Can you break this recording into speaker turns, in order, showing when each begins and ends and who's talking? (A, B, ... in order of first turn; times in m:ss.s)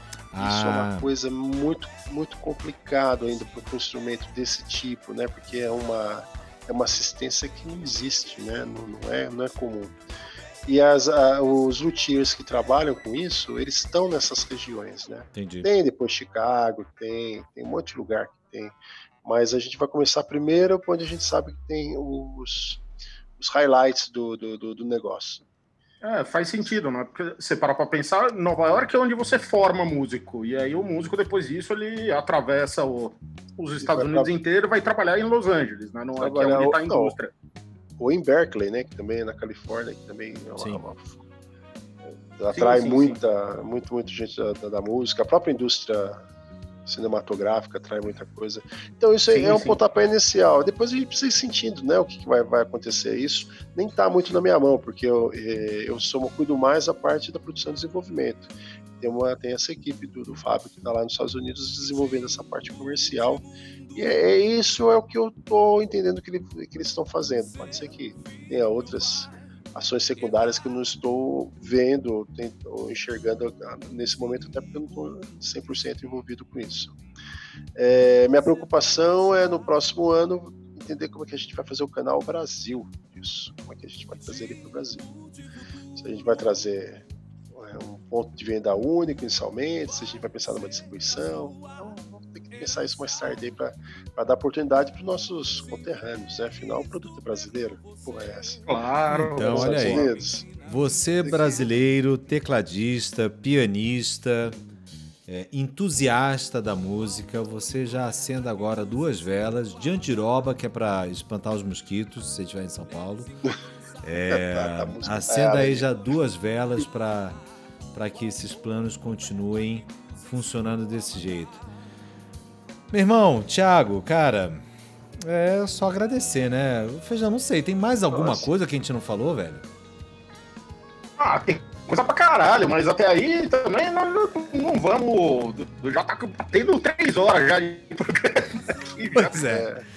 0:00.3-0:01.1 A
0:00.4-0:10.0 B
0:10.7-0:22.8 B
0:15.4-0:15.7 A
0:23.4-0:25.4 B
0:26.0-0:37.3 C
0:33.8-0:34.3 B
0:36.2-0:37.1 B
0:38.0-0:41.2 B
0:42.3-0:46.2 B
0:42.5-0:43.2 C
0:46.9-1:03.4 B
0:49.3-0:49.8 C
1:04.0-1:17.0 B
1:17.8-1:25.1 B
1:26.0-1:38.7 B
1:38.7-1:40.1 C
1:39.1-1:44.6 A
1:39.4-1:40.4 B
1:41.2-1:41.6 B
1:45.3-1:53.4 A
1:54.0-1:57.4 A
1:54.3-1:55.9 B
1:57.9-2:01.6 A
2:02.9-2:04.7 A
2:05.2-2:09.7 A
2:08.1-2:08.5 B
2:11.2-2:19.5 C
2:19.2-2:19.7 A
2:19.5-2:19.8 B